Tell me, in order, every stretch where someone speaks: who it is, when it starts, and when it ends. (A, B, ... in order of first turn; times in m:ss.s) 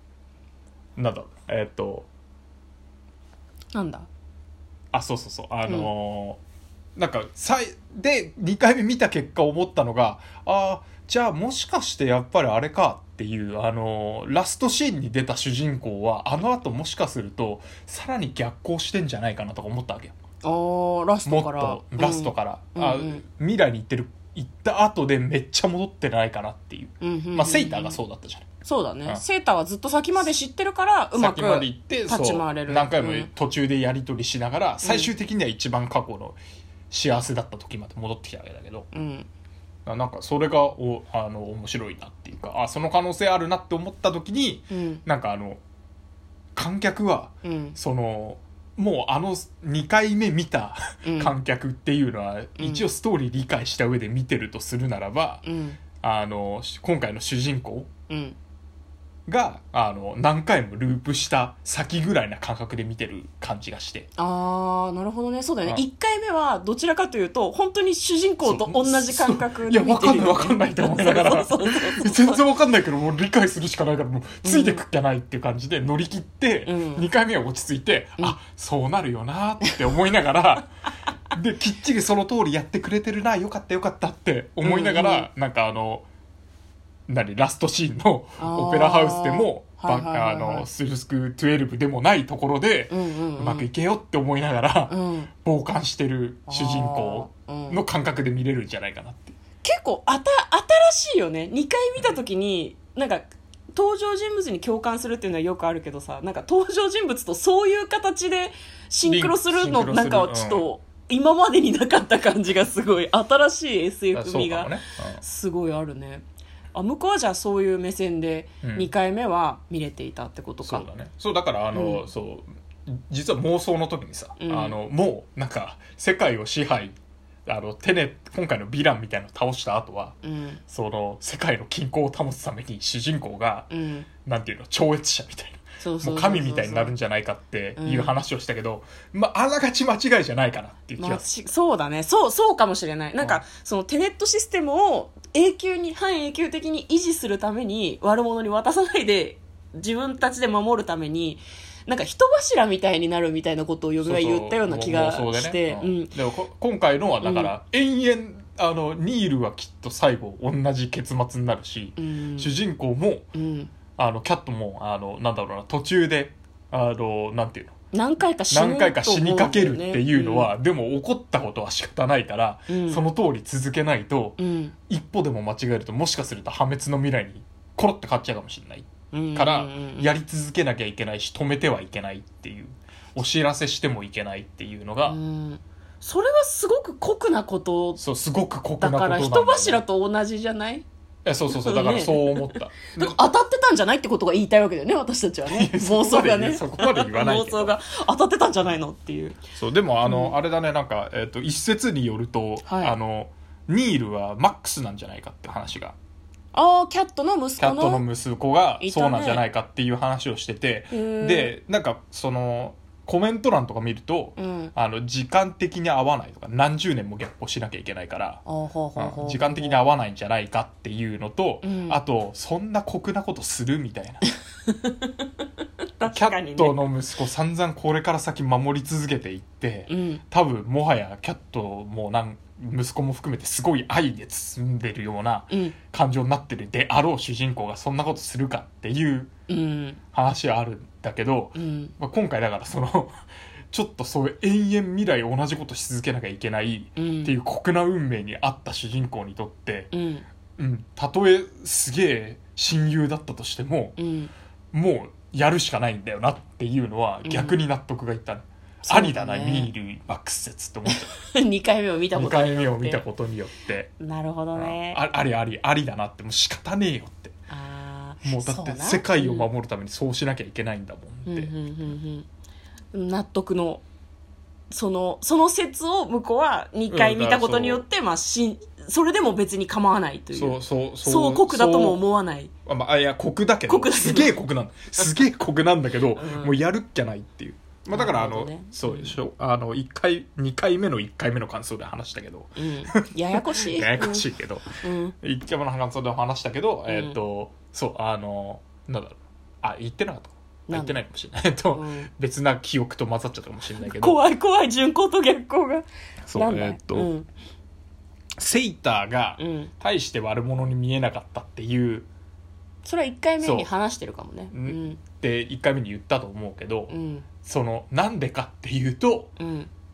0:01.0-0:02.1 A
0:03.7-0:04.1 B
0:04.9-0:06.4 A
0:07.0-0:20.1 A
0:20.4-0:23.2 B
0:21.3-0:28.4 A
0:27.0-0:28.0 B
0:28.6-0:33.3 B
0:31.1-0:36.4 A
0:34.8-0:35.1 B
0:36.9-0:38.9 A
0:38.9-0:39.3 B
0:39.9-0:45.6 A
0:44.7-0:45.0 B
0:46.6-0:55.4 A
0:47.4-0:47.8 B
0:51.0-0:51.3 B
0:52.6-0:52.9 B
0:55.4-0:55.8 B
0:56.0-0:57.9 A
0:58.1-0:58.4 B
0:59.3-1:04.1 A
1:04.2-1:12.4 B
1:08.4-1:20.7 A
1:14.4-1:14.8 B
1:16.7-1:17.1 B
1:21.3-1:26.1 A
1:24.6-1:25.3 B
1:27.1-1:39.4 A
1:28.4-1:30.7 B
1:32.9-1:33.7 B
1:34.9-1:35.3 B
1:36.5-1:37.8 B
1:39.6-2:00.9 B
1:49.0-1:50.7 A
1:54.1-1:55.2 A
1:58.6-1:58.9 A
2:00.6-2:10.2 A
2:01.7-2:02.0 B
2:04.4-2:04.8 B
2:10.2-2:10.6 B
2:10.7-2:13.7 A
2:13.7-2:14.1 B
2:14.2-2:21.2 A
2:15.8-2:16.9 B
2:17.8-2:18.2 B
2:21.0-2:36.2 B
2:34.0-2:43.3 A
2:37.2-2:37.5 B
2:42.0-2:42.6 B
2:43.3-2:43.7 B
2:43.9-2:47.8 A
2:47.9-2:50.5 B
2:48.5-3:05.2 A
2:52.7-2:53.0 B
2:54.4-2:54.7 B
2:59.1-3:00.1 B
3:05.1-3:08.0 B
3:08.0-3:09.8 A
3:08.8-3:10.8 B
3:11.2-3:13.2 A
3:11.5-3:19.4 B
3:15.4-3:17.8 A
3:19.6-3:26.0 A
3:20.0-3:20.3 B
3:22.6-3:23.0 B
3:26.5-3:28.0 B
3:27.6-3:38.4 A
3:28.8-3:29.4 B
3:30.9-3:31.5 B
3:34.4-3:34.7 B
3:38.5-3:39.8 B
3:39.0-3:44.2 A
3:41.6-3:42.0 B
3:44.6-3:45.3 B
3:46.0-3:46.8 B
3:46.0-3:59.3 A
3:49.9-3:50.2 B
3:55.5-3:55.8 B
3:59.5-4:00.0 B
4:00.1-4:09.9 A
4:01.5-4:01.9 B
4:07.0-4:07.3 B
4:09.9-4:10.3 B
4:10.6-4:14.0 A
4:14.0-4:14.3 B
4:14.7-4:21.2 A
4:17.2-4:17.6 B
4:18.9-4:19.7 B
4:20.9-4:23.0 B
4:22.1-4:23.9 A
4:24.0-4:25.0 B
4:24.5-4:27.4 A
4:27.5-4:29.5 B
4:28.2-4:31.5 A
4:31.2-4:32.3 B
4:32.9-4:33.8 B
4:34.7-4:42.5 B
4:36.9-4:37.9 A
4:40.3-4:42.0 A
4:42.6-5:04.2 A
4:43.7-4:44.4 B
4:46.1-4:46.6 B
4:47.9-4:49.2 B
4:52.6-4:54.2 B
4:54.8-4:55.1 B
4:56.9-4:57.1 B
5:00.7-5:01.0 B
5:01.7-5:02.1 B
5:03.8-5:07.3 B
5:06.3-5:07.1 A
5:08.4-5:12.1 A
5:09.4-5:09.7 B
5:12.8-5:15.0 B
5:13.4-5:13.7 A
5:14.5-5:19.3 A
5:16.9-5:17.2 B
5:19.4-5:19.7 B